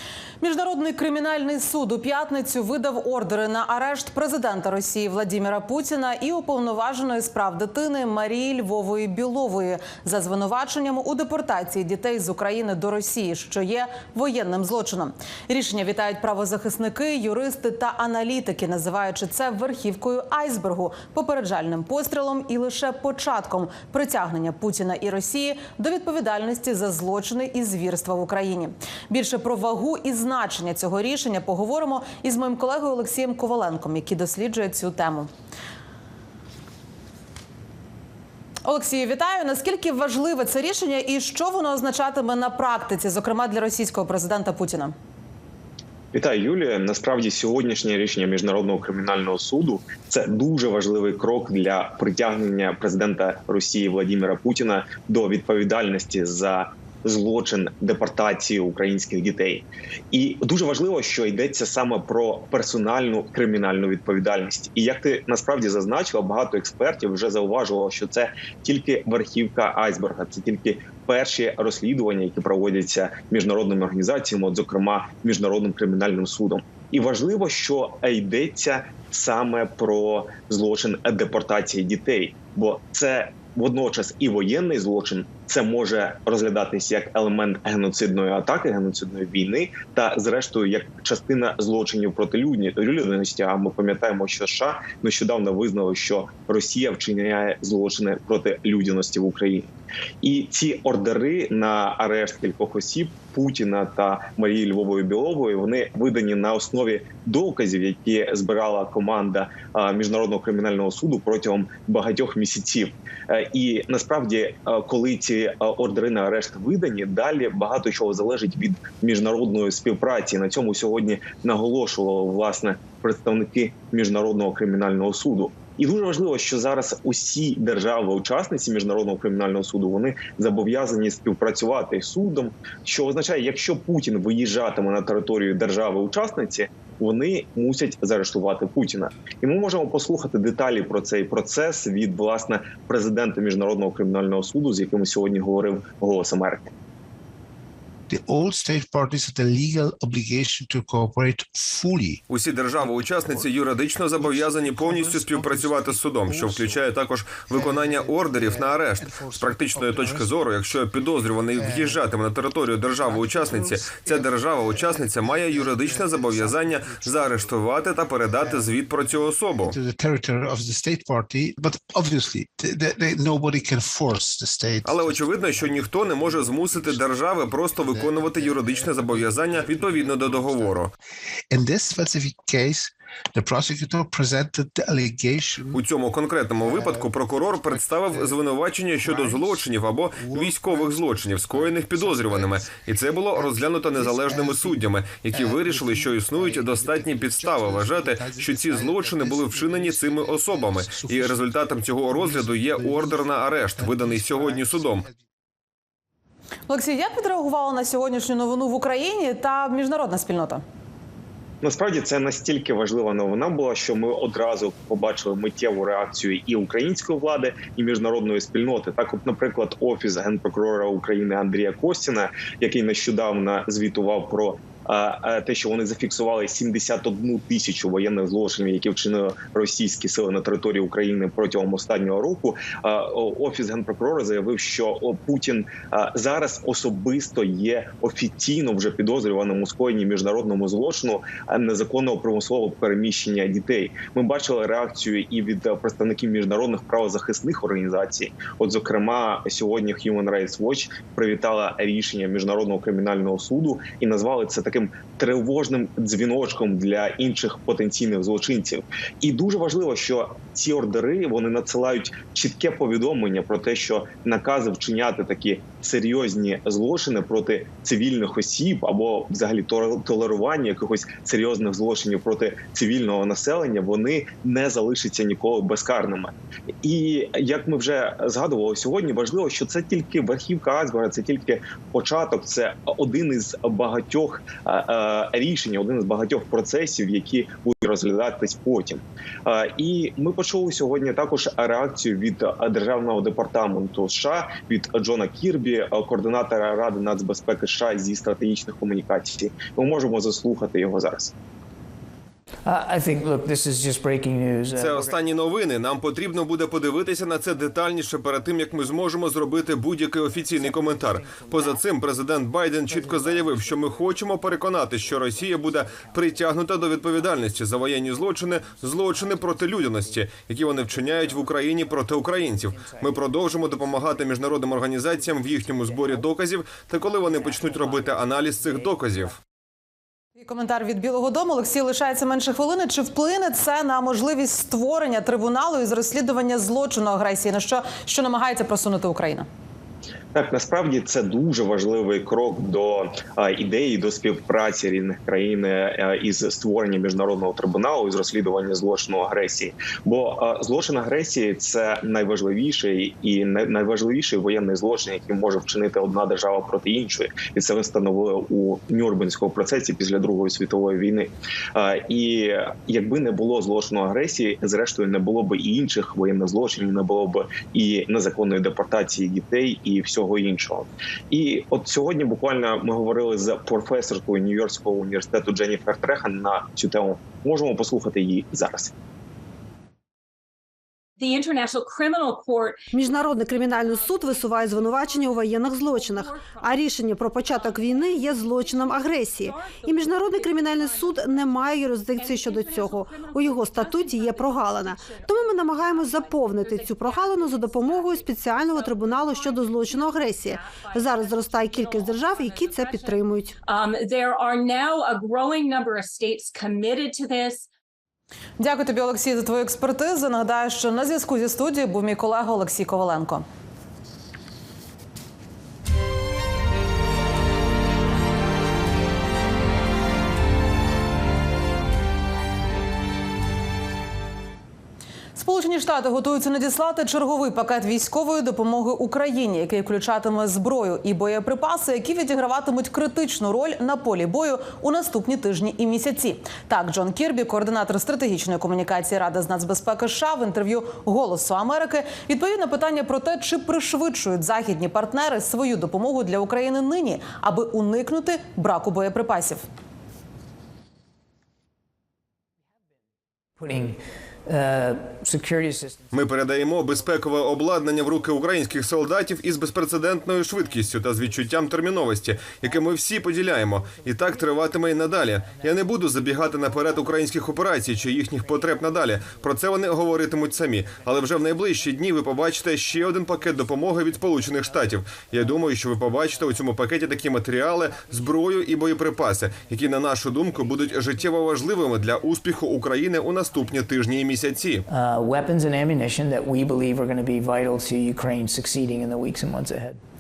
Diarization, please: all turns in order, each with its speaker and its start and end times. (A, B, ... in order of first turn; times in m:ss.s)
0:00.4-0:35.3 A
0:38.6-0:45.0 A
0:46.1-1:39.7 B
1:40.2-2:26.7 B
2:28.1-2:32.2 C
2:32.3-2:49.8 D
2:32.8-2:36.9 C
2:37.5-2:40.6 C
2:41.2-2:42.0 C
2:42.9-3:00.9 C
2:54.8-3:00.9 D
3:01.5-3:05.8 C
3:05.7-3:25.1 D
3:06.6-3:08.4 C
3:08.9-3:12.8 C
3:13.3-3:25.2 C
3:26.7-3:30.6 A
3:31.6-5:01.3 B
5:02.6-5:05.2 E
5:04.8-5:29.4 D
5:10.6-5:11.6 E
5:13.0-5:14.0 E
5:15.4-5:16.1 E
5:18.9-5:19.6 E
5:22.8-5:23.2 E
5:27.4-5:29.0 E
5:30.4-5:39.5 A
5:40.3-6:18.9 B
6:21.2-6:26.9 F
6:22.9-6:43.5 G
6:27.4-6:47.7 F
6:48.6-6:53.4 A
7:05.4-7:29.7 A
7:33.6-7:36.0 E
7:36.1-8:04.9 D
8:04.9-8:10.0 E